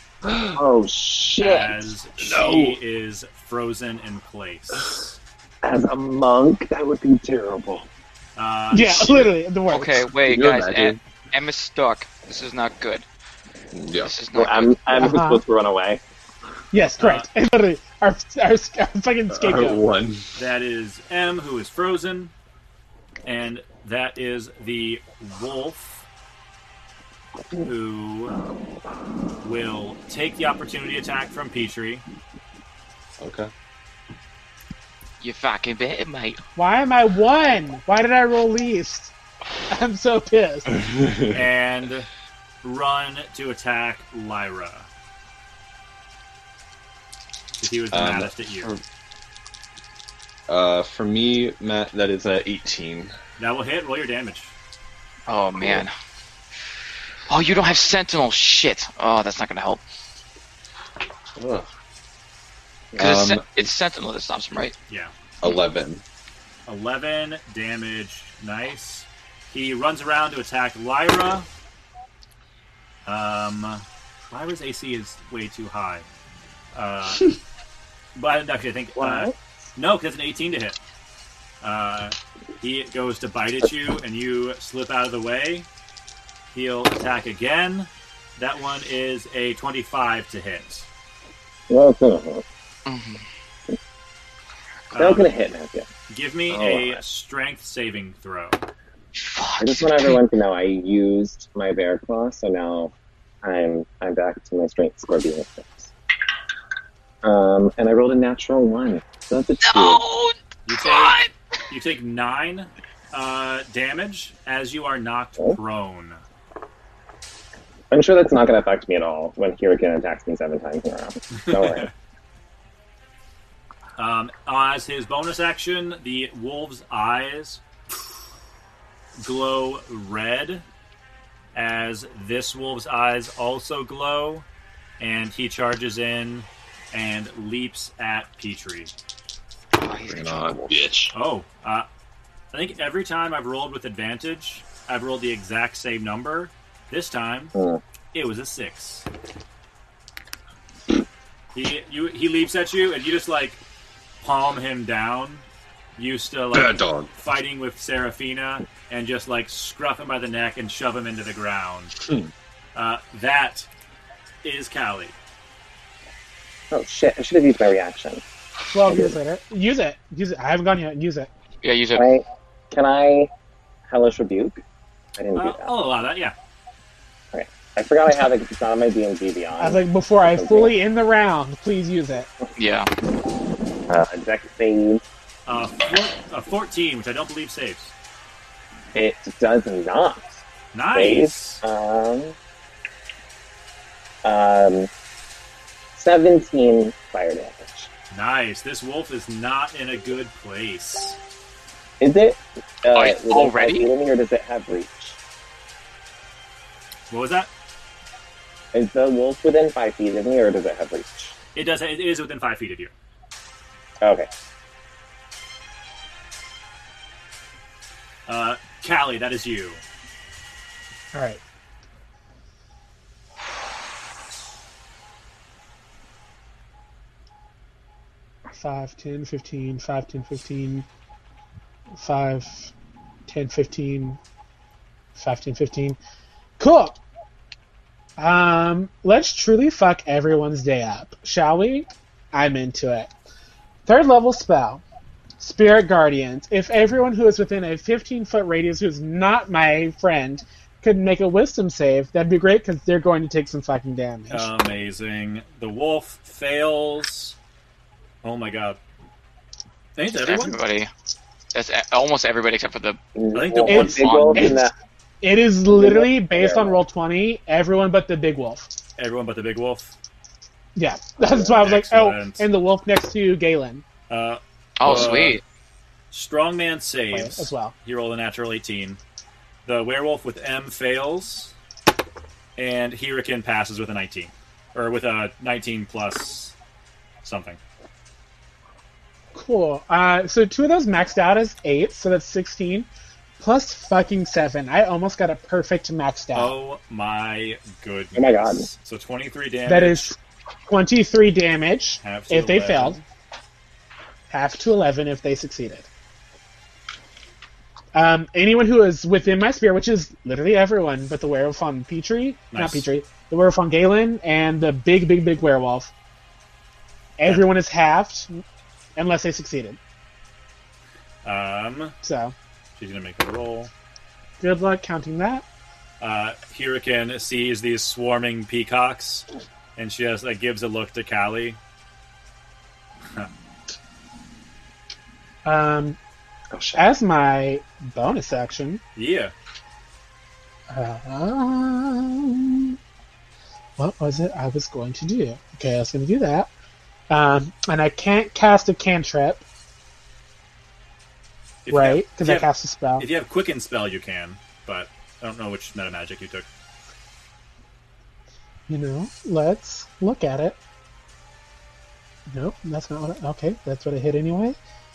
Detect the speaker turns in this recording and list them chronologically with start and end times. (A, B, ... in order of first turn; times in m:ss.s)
0:00.2-0:00.6 A
0:00.6-0:01.9 B
0:01.4-0:05.2 C
0:02.2-0:02.8 A
0:05.6-0:07.9 B
0:08.4-0:09.3 C
0:08.7-0:10.0 D
0:09.7-0:13.1 E
0:10.2-0:11.0 A
0:13.7-0:14.2 A
0:14.0-0:15.0 E
0:14.3-0:16.0 B
0:14.9-0:15.4 D
0:16.7-0:19.8 D
0:17.0-0:17.3 C
0:19.3-0:20.3 A
0:20.4-0:22.3 C
0:23.3-0:26.1 C
0:27.6-0:28.4 C
0:29.4-0:32.0 C
0:33.2-0:33.5 A
0:35.2-0:36.4 E
0:36.6-0:39.1 D
0:39.7-0:40.7 D
0:40.8-0:41.4 A
0:41.3-0:42.1 C
0:42.6-0:44.9 C
0:47.6-0:48.7 C
0:47.9-0:48.8 A
0:50.5-0:53.2 A
0:53.4-0:54.6 C
0:55.3-0:55.9 E
0:55.6-0:55.9 A
0:57.3-0:59.8 E
1:01.4-1:01.7 A
1:02.9-1:03.7 A
1:03.0-1:04.8 E
1:05.4-1:06.0 A
1:06.7-1:11.5 C
1:13.1-1:16.1 C
1:16.7-1:17.3 C
1:18.2-1:20.8 C
1:19.0-1:19.4 B
1:21.6-1:25.7 C
1:26.5-1:30.9 C
1:31.7-1:32.4 B
1:32.9-1:33.2 E
1:34.9-1:35.3 C
1:35.0-1:35.9 B
1:36.1-1:38.6 C
1:36.5-1:37.0 B
1:39.2-1:40.2 E
1:39.6-1:42.9 B
1:43.4-1:45.9 B
1:47.2-1:50.0 B
1:49.6-1:51.3 E
1:50.7-1:51.2 C
1:51.7-1:56.2 C
1:57.9-2:01.9 B
2:01.4-2:01.9 C
2:04.0-2:07.6 C
2:09.2-2:10.6 C
2:11.5-2:14.5 C
2:15.0-2:18.9 C
2:19.8-2:20.8 E
2:20.0-2:21.2 A
2:21.1-2:21.9 C
2:22.5-2:27.5 C
2:27.6-2:27.8 B
2:28.1-2:29.1 C
2:31.5-2:33.6 C
2:34.2-2:35.5 C
2:36.0-2:42.0 C
2:36.5-2:37.1 A
2:42.0-2:42.3 A
2:42.8-2:43.7 C
2:44.4-2:45.2 C
2:46.7-2:48.2 B
2:48.7-2:51.3 D
2:48.9-2:49.2 B
2:51.6-2:52.1 E
2:52.0-2:53.3 B
2:53.9-2:54.6 B
2:55.2-2:55.7 B
2:55.4-2:56.4 C
2:57.3-3:00.8 B
2:59.6-3:02.3 D
3:02.6-3:02.9 E
3:03.9-3:05.0 B
3:05.5-3:07.9 C
3:08.9-3:10.4 B
3:10.7-3:11.6 C
3:11.0-3:12.4 B
3:14.2-3:14.9 B
3:16.0-3:17.9 B
3:18.1-3:21.2 C
3:22.0-3:25.2 B
3:22.9-3:23.9 E
3:27.1-3:27.5 C
3:28.7-3:31.4 B
3:31.6-3:32.9 C
3:34.0-3:34.3 B
3:38.3-3:39.8 C
3:41.1-3:41.4 D
3:48.5-3:50.9 D
3:52.0-3:52.7 D
3:53.3-3:54.2 D
3:55.2-3:56.0 D
3:56.6-3:57.0 D
3:58.2-4:03.1 D
4:03.9-4:04.8 D
4:05.4-4:14.5 D
4:14.3-4:17.4 C
4:18.2-4:18.8 C
4:20.0-4:20.6 C
4:20.2-4:20.9 E
4:21.5-4:23.0 E
4:23.2-4:24.7 B
4:23.3-4:24.1 C
4:23.7-4:24.7 D
4:23.8-4:24.5 E
4:25.2-4:28.7 D
4:25.7-4:26.8 B
4:29.0-4:30.0 C
4:30.8-4:33.8 D
4:31.5-4:32.5 C
4:34.1-4:35.4 C
4:34.8-4:35.4 E
4:36.1-4:39.0 C
4:37.1-4:37.8 D
4:39.6-4:41.6 C
4:42.6-4:46.6 C
4:47.2-4:47.6 C
4:49.4-4:52.9 D
4:53.4-4:56.6 D
4:56.3-5:00.2 C
4:58.2-4:58.7 B
4:59.7-5:03.0 D
5:02.0-5:03.0 C
5:04.3-5:05.9 D
5:07.9-5:15.9 D
5:12.5-5:12.9 C
5:17.2-5:18.4 D
5:19.0-5:19.8 D
5:21.2-5:22.0 C
5:22.0-5:22.3 D
5:22.8-5:23.7 C
5:24.4-5:25.4 D
5:26.0-5:31.6 C
5:35.4-5:36.0 D
5:36.5-5:36.8 A
5:36.8-5:38.8 D
5:39.0-5:39.3 C
5:40.7-5:42.8 D
5:43.8-5:46.5 D
5:47.1-5:49.4 D
5:51.7-5:56.5 C
5:51.7-5:53.1 D
5:58.7-6:00.6 D
6:02.3-6:04.6 D